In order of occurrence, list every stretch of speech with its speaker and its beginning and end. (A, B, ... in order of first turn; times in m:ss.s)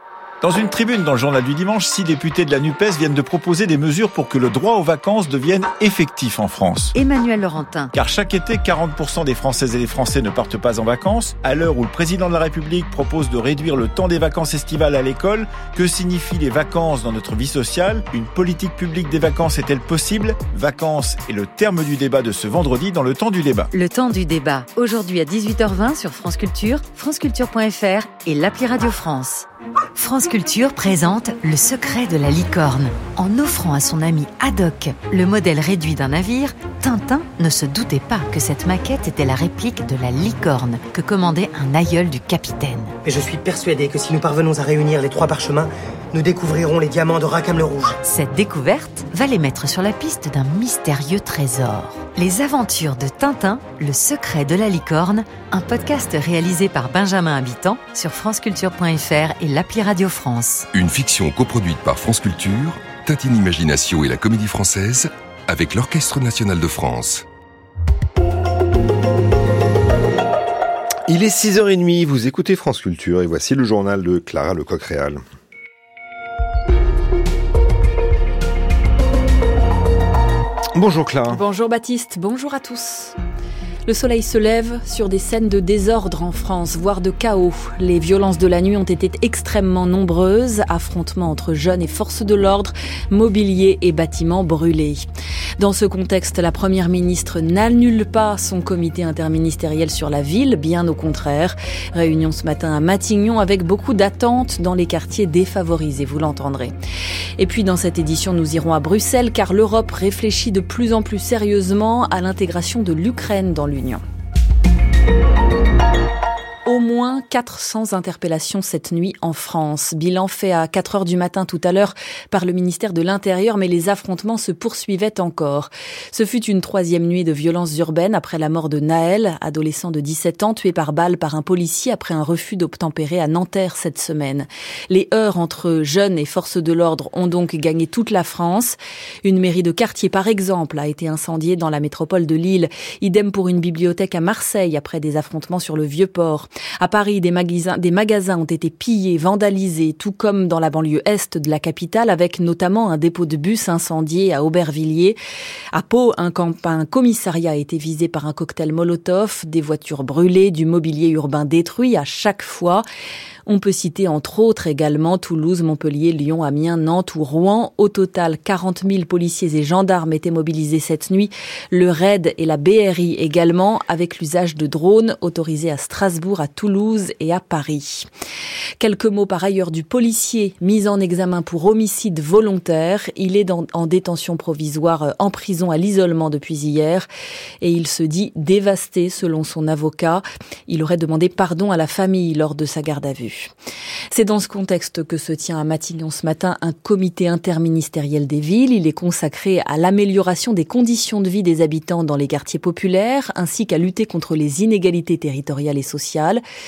0:00.4-0:06.9 A
0:06.9-0:07.9 B
0:08.0-0:23.7 A
0:23.7-0:43.0 B
0:43.0-0:48.0 C
0:48.0-1:00.7 B
1:00.7-1:07.3 D
1:11.1-1:15.2 E
1:20.8-1:21.4 E
1:21.3-1:23.2 F
1:23.9-1:35.0 F
1:35.6-1:46.7 F
1:47.4-1:54.0 F
1:56.7-2:35.2 F
2:35.7-2:42.8 F
2:43.5-2:58.1 F
2:58.8-3:07.1 F
3:07.6-3:13.5 F
3:14.1-3:26.4 F